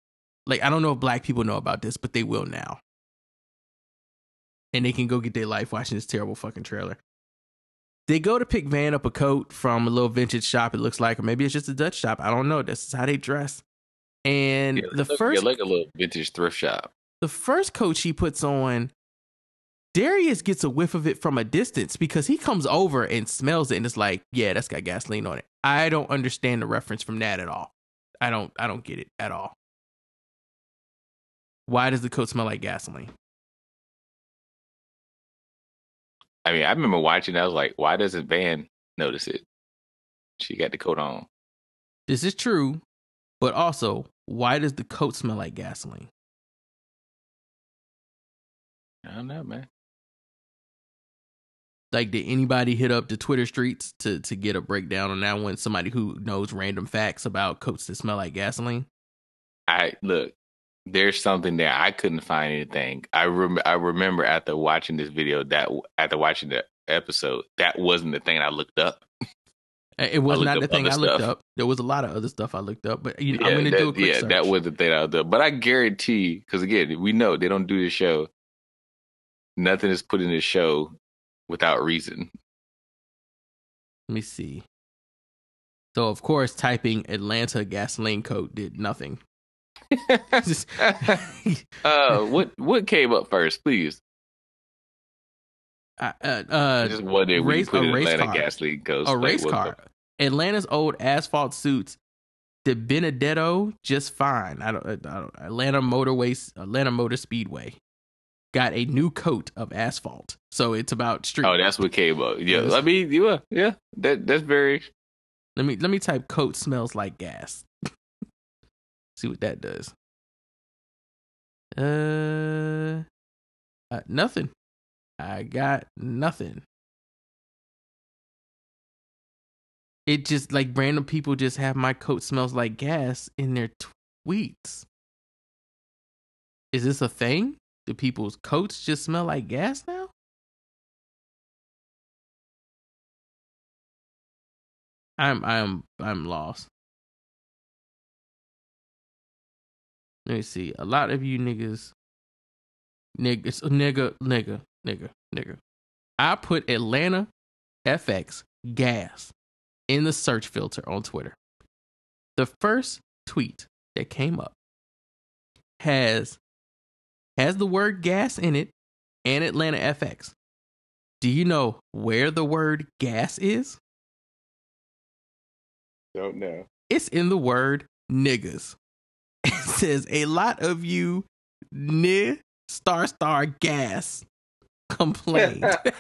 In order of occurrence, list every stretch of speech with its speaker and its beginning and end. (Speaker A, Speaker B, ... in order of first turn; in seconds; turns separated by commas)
Speaker A: 0.5-2.8, Speaker A: 4.7-7.0, Speaker A: 8.1-13.6, Speaker A: 14.3-15.5, Speaker B: 14.8-16.9, Speaker A: 17.2-18.9, Speaker A: 19.9-29.6, Speaker A: 31.7-33.1, Speaker B: 36.5-39.4, Speaker B: 40.4-41.3, Speaker A: 42.1-42.8, Speaker A: 43.4-46.1, Speaker B: 49.0-49.7, Speaker A: 51.9-58.9, Speaker B: 59.7-60.3, Speaker B: 60.9-69.0, Speaker A: 70.0-74.5, Speaker B: 70.3-71.3, Speaker B: 73.3-78.3, Speaker B: 79.6-80.9, Speaker B: 81.5-82.3, Speaker A: 84.1-84.6, Speaker A: 86.0-89.2, Speaker B: 89.9-91.2, Speaker A: 90.4-92.3, Speaker B: 91.8-94.0, Speaker A: 96.0-98.5, Speaker B: 96.8-99.7, Speaker A: 99.0-102.0, Speaker A: 102.7-107.8, Speaker A: 108.5-111.6, Speaker B: 111.4-114.9, Speaker A: 112.5-112.8, Speaker A: 115.6-117.7, Speaker A: 119.2-119.9, Speaker A: 121.8-123.0, Speaker A: 123.9-124.5, Speaker A: 125.2-126.6, Speaker A: 130.1-134.9, Speaker A: 136.7-140.1, Speaker A: 145.2-146.7, Speaker A: 150.3-151.9, Speaker A: 153.2-155.6, Speaker A: 156.2-157.3, Speaker A: 157.9-159.3, Speaker A: 159.9-161.4, Speaker A: 162.4-164.6, Speaker A: 165.8-166.4, Speaker A: 167.4-168.7, Speaker A: 169.2-170.3, Speaker A: 171.2-173.8, Speaker B: 176.2-176.6, Speaker A: 176.9-178.8, Speaker A: 179.5-184.2, Speaker A: 184.9-185.8